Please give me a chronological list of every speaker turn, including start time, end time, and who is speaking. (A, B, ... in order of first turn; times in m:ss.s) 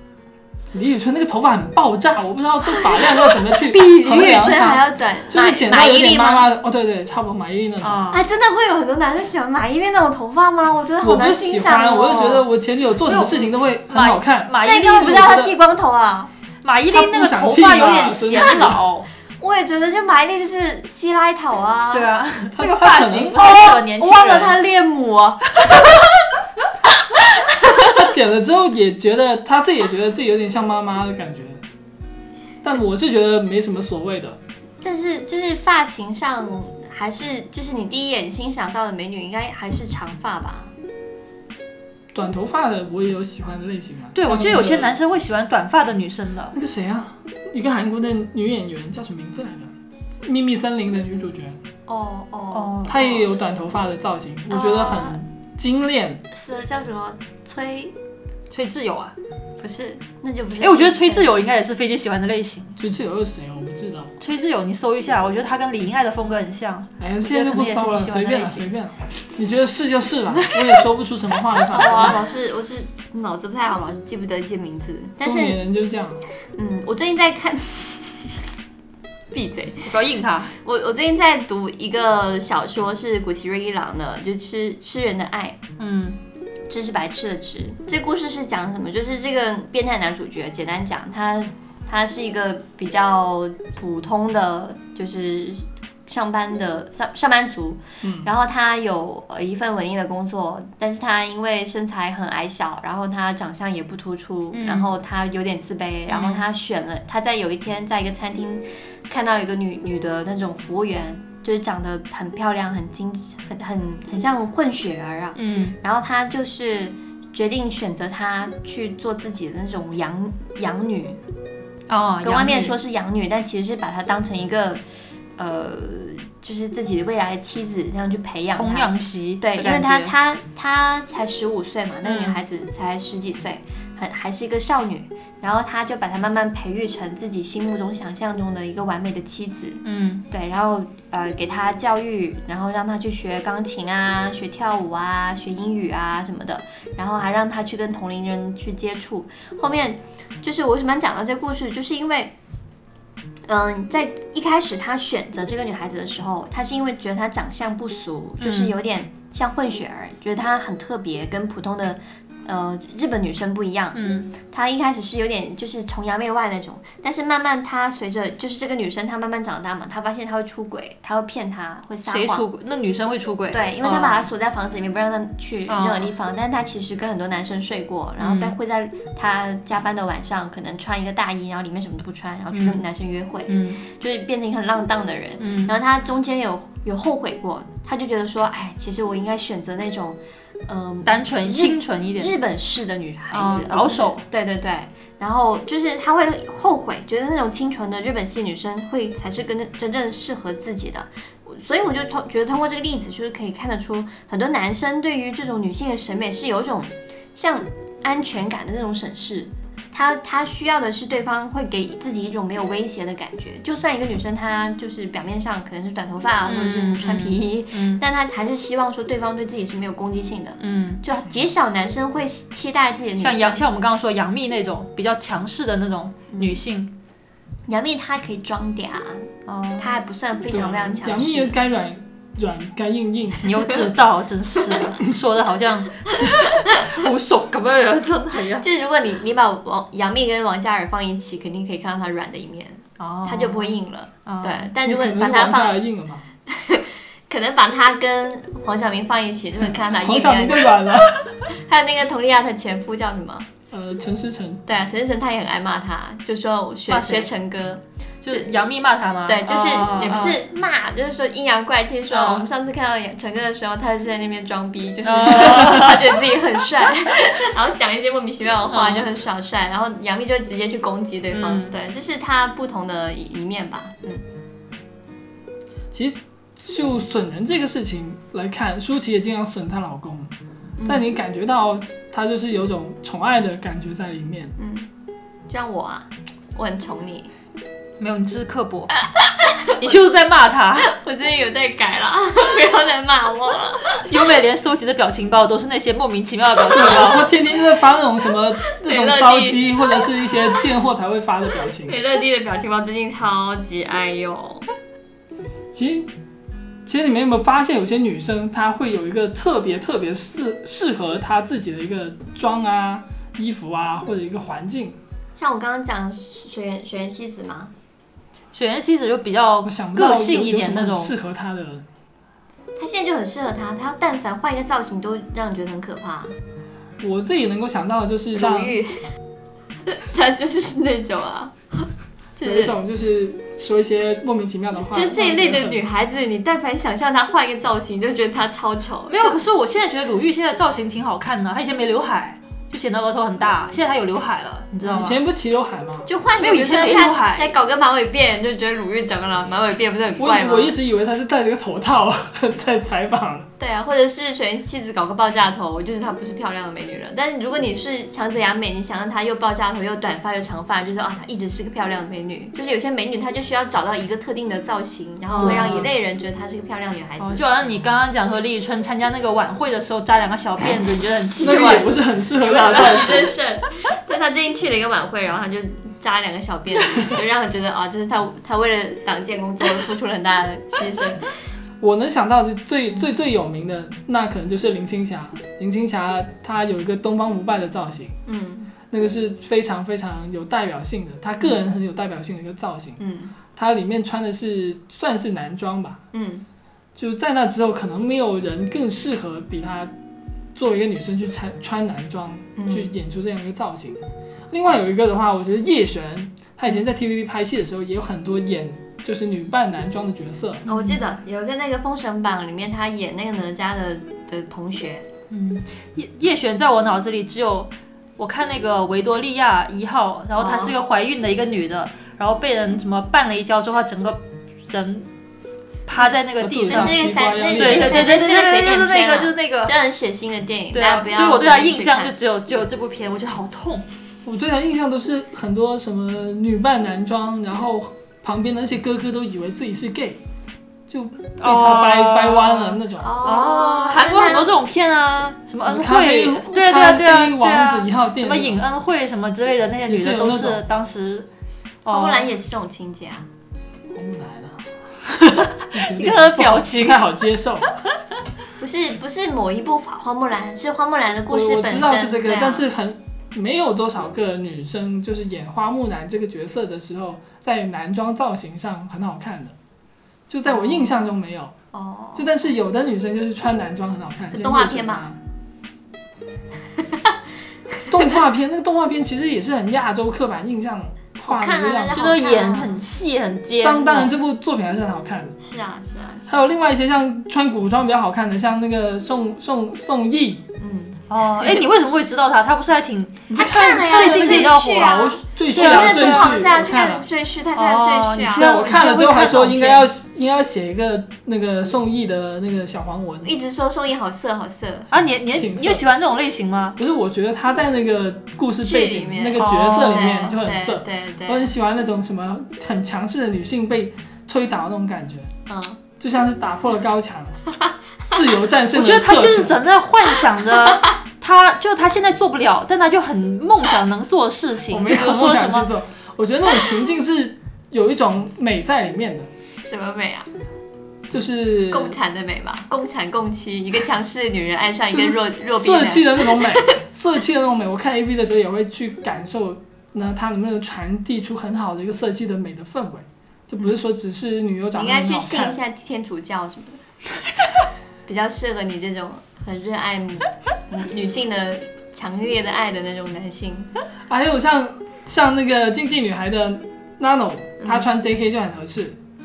0:00.7-0:08.1 A
0:03.7-0:06.4 B
0:03.7-0:04.4 C
0:07.8-0:08.2 C
0:08.1-0:12.4 B
0:11.0-0:15.5 A
0:13.0-0:15.4 C
0:14.6-0:16.3 B
0:16.6-0:19.1 C
0:16.9-0:18.8 A
0:19.4-0:22.1 B
0:21.9-0:24.6 C
0:22.5-0:23.5 A
0:23.4-0:26.0 B
0:27.1-0:28.0 B
0:27.9-0:31.6 A
0:32.6-0:34.4 A
0:34.8-0:40.7 B
0:42.1-0:45.0 A
0:44.1-0:46.6 C
0:46.6-0:51.6 A
0:51.9-0:53.3 B
0:52.5-0:53.0 C
0:52.8-0:56.2 A
0:54.5-0:55.3 B
0:56.3-0:58.0 B
0:58.5-0:59.1 C
0:59.6-1:01.3 B
1:00.6-1:02.8 C
1:02.8-1:04.1 A
1:04.2-1:08.7 C
1:07.0-1:12.2 A
1:11.7-1:15.6 B
1:15.2-1:16.2 A
1:16.6-1:18.4 B
1:19.3-1:19.9 B
1:19.9-1:20.5 C
1:20.5-1:25.6 B
1:25.8-1:26.2 C
1:26.7-2:01.2 B
1:38.0-1:38.3 A
1:44.5-1:44.9 C
1:46.1-1:46.4 C
1:55.4-1:55.8 C
2:01.9-2:02.8 C
2:02.2-2:04.8 B
2:05.4-2:32.4 B
2:08.5-2:10.1 C
2:12.0-2:12.4 C
2:19.8-2:20.2 C
2:33.5-2:52.4 B
2:38.4-2:38.7 C
2:43.9-2:44.3 C
2:52.1-2:54.2 C
2:53.5-3:43.6 B
2:55.7-2:56.1 C
2:58.2-2:58.6 C
3:02.5-3:02.8 C
3:03.5-3:03.8 C
3:05.4-3:05.7 C
3:11.1-3:12.4 C
3:13.3-3:14.2 C
3:36.5-3:38.0 C
3:40.6-3:41.0 C
3:43.2-3:46.9 C
3:46.3-3:46.6 B
3:47.7-3:51.6 B
3:49.5-3:50.0 C
3:50.5-3:53.5 A
3:53.4-3:58.7 C
3:56.5-3:56.8 B
3:58.6-4:05.8 B
4:03.0-4:04.7 C
4:04.8-4:06.2 A
4:06.5-4:10.7 B
4:09.9-4:11.3 A
4:11.5-4:13.5 B
4:13.7-4:14.6 A
4:14.7-4:18.5 B
4:16.9-4:17.3 C
4:18.2-4:20.4 C
4:19.3-4:34.2 B
4:22.1-4:22.4 C
4:25.0-4:26.1 C
4:28.7-4:29.1 C
4:31.3-4:31.7 C
4:35.9-4:40.3 A
4:40.8-4:41.1 B
4:40.9-4:44.6 A
4:44.6-4:44.9 B
4:45.5-4:47.3 B
4:48.0-4:48.9 C
4:49.1-4:49.9 B
4:49.8-4:51.0 C
4:50.9-4:54.1 B
4:54.0-4:57.3 C
4:56.7-5:02.0 A
4:58.8-5:00.6 B
5:01.8-5:04.6 B
5:05.7-5:06.1 A
5:06.9-5:15.0 A
5:15.4-5:17.7 B
5:18.5-5:21.1 C
5:19.6-5:21.8 A
5:22.8-5:26.3 B
5:27.0-5:28.8 A
5:28.3-5:29.1 B
5:29.9-5:32.7 B
5:32.4-5:35.8 A
5:34.9-5:39.4 B
5:39.1-5:45.2 C
5:44.8-5:45.1 B
5:44.9-5:46.1 A
5:46.1-5:50.7 B
5:46.4-5:47.5 C
5:50.2-5:53.5 A
5:53.6-6:07.4 B
6:05.3-6:05.9 C
6:05.4-6:05.9 A
6:07.2-6:12.0 C
6:11.4-6:13.3 A
6:11.4-6:11.9 B
6:12.4-6:21.3 B
6:12.8-6:13.2 C
6:21.8-6:28.1 A
6:28.3-6:28.7 B
6:28.9-6:33.0 A
6:33.0-6:33.4 B
6:33.5-6:36.0 A
6:36.1-6:36.4 B
6:37.0-6:39.9 A
6:40.6-6:50.6 A
6:42.6-6:42.9 B
6:50.7-6:51.0 C
6:50.7-6:55.1 B
6:55.3-7:05.1 C
7:00.4-7:00.7 B
7:05.9-7:07.0 C
7:06.4-7:08.2 A
7:06.7-7:12.1 B
7:07.5-7:09.7 C
7:10.7-7:13.9 C
7:14.2-7:20.2 A
7:20.9-7:23.1 A
7:21.4-7:31.3 C
7:23.0-7:24.5 B
7:25.6-7:28.6 A
7:29.9-7:30.6 A
7:31.8-7:32.3 C
7:31.9-7:33.3 B
7:33.9-7:34.7 A
7:35.2-7:37.0 C
7:35.7-7:37.7 A
7:38.6-7:42.7 B
7:41.3-7:49.6 A
7:50.3-7:51.5 A
7:50.4-7:51.0 B
7:51.7-7:52.4 B
7:52.2-7:55.2 A
7:54.3-7:55.0 B
7:56.8-7:57.1 B
7:57.9-8:02.1 A
8:01.2-8:02.8 B
8:01.9-8:04.1 C
8:03.6-8:05.4 A
8:05.4-8:06.3 B
8:06.3-8:10.4 A
8:10.6-8:11.7 B
8:11.1-8:16.5 C
8:13.3-8:17.0 A
8:13.3-8:18.5 B
8:17.6-8:19.9 C
8:18.3-8:23.3 A
8:23.2-8:24.9 B
8:24.9-8:26.8 C
8:25.1-8:25.8 A
8:26.8-8:35.3 A
8:28.6-8:31.5 B
8:29.4-8:30.2 C
8:35.5-8:35.8 B
8:36.0-8:37.4 A
8:38.1-8:39.6 A
8:38.7-8:45.7 C
8:44.7-8:49.3 A
8:49.6-8:50.3 B
8:51.1-8:52.0 A
8:51.7-8:56.8 B
8:54.9-9:05.6 A
9:04.8-9:06.8 B
9:08.1-9:13.7 B
9:14.1-9:19.0 A
9:17.6-9:17.9 B